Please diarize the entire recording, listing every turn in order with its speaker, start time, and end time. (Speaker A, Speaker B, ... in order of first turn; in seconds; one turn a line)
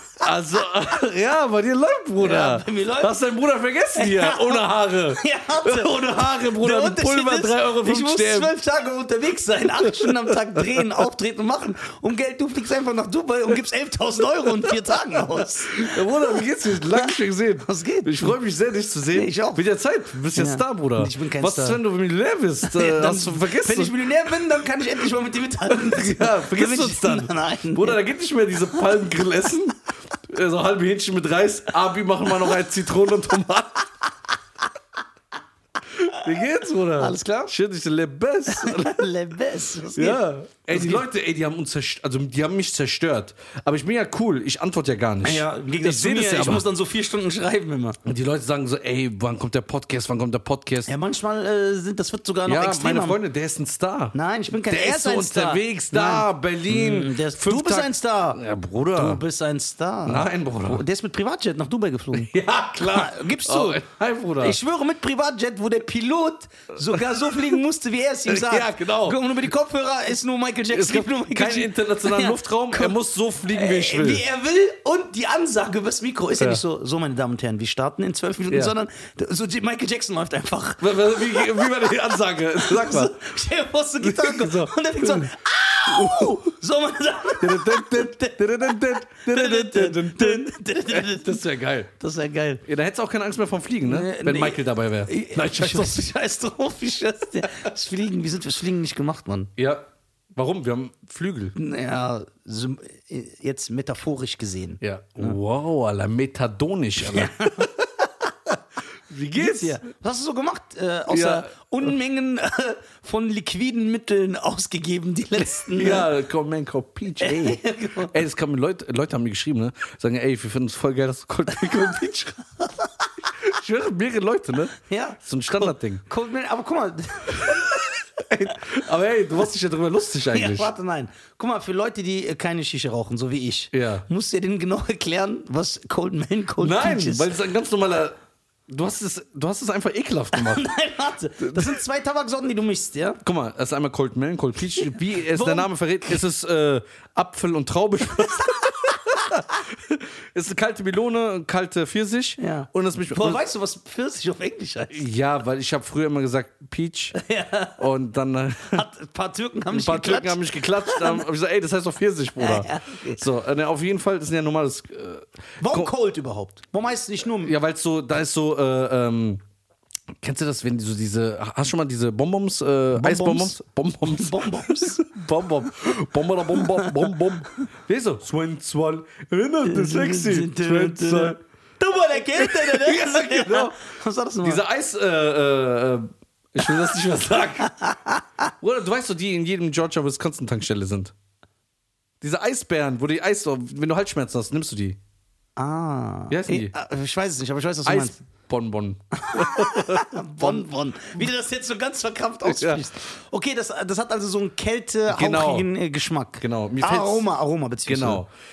Speaker A: 0.2-8.5
Speaker B: 2.2-3.2
Speaker B: 4.0-16.4
Speaker A: 9.8-11.0
Speaker A: 14.6-23.9
Speaker B: 17.0-18.4
Speaker B: 19.1-19.6
Speaker B: 20.4-21.8
Speaker B: 22.6-28.0
Speaker A: 25.7-33.9
Speaker A: 35.9-39.0
Speaker B: 36.9-37.5
Speaker B: 38.5-41.0
Speaker A: 39.9-46.7
Speaker B: 45.2-48.0
Speaker A: 48.0-50.9
Speaker B: 50.9-53.2
Speaker A: 52.5-59.2
Speaker B: 54.1-58.4
Speaker B: 58.9-63.8
Speaker A: 60.0-60.8
Speaker A: 62.1-64.6
Speaker B: 64.4-73.0
Speaker A: 66.9-67.5
Speaker A: 68.2-69.2
Speaker A: 70.7-74.2
Speaker B: 73.5-91.4
Speaker A: 80.8-83.2
Speaker A: 84.0-85.3
Speaker A: 85.8-86.5
Speaker A: 87.4-91.9
Speaker B: 92.0-92.6
Speaker A: 92.6-96.0
Speaker B: 93.8-99.5
Speaker A: 99.6-101.5
Speaker B: 101.5-105.4
Speaker A: 104.8-107.7
Speaker B: 107.0-108.1
Speaker A: 109.1-109.8
Speaker B: 109.3-116.1
Speaker A: 111.1-111.5
Speaker A: 115.7-122.5
Speaker B: 117.2-118.1
Speaker A: 123.4-126.0
Speaker B: 124.9-128.6
Speaker A: 127.4-130.7
Speaker B: 130.3-137.3
Speaker A: 133.7-134.1
Speaker A: 136.6-138.2
Speaker A: 138.7-140.7
Speaker B: 140.3-143.2
Speaker A: 141.4-141.8
Speaker A: 143.2-153.4
Speaker B: 144.9-146.2
Speaker B: 152.4-155.1
Speaker A: 154.9-157.2
Speaker B: 157.2-157.8
Speaker A: 157.8-158.9
Speaker B: 158.7-161.2
Speaker A: 159.7-165.9
Speaker B: 162.4-163.2
Speaker B: 165.6-167.5
Speaker A: 167.4-169.4
Speaker A: 170.2-181.4
Speaker B: 172.9-175.1
Speaker B: 176.5-177.1
Speaker B: 179.6-184.6
Speaker A: 182.4-183.8
Speaker A: 184.4-187.7
Speaker B: 187.6-188.5
Speaker A: 188.6-191.1
Speaker A: 192.2-195.0
Speaker B: 195.6-198.2
Speaker A: 196.3-196.7
Speaker A: 197.8-201.3
Speaker B: 199.2-208.2
Speaker A: 202.4-202.9
Speaker A: 205.1-205.7
Speaker A: 206.4-207.3
Speaker A: 207.9-208.3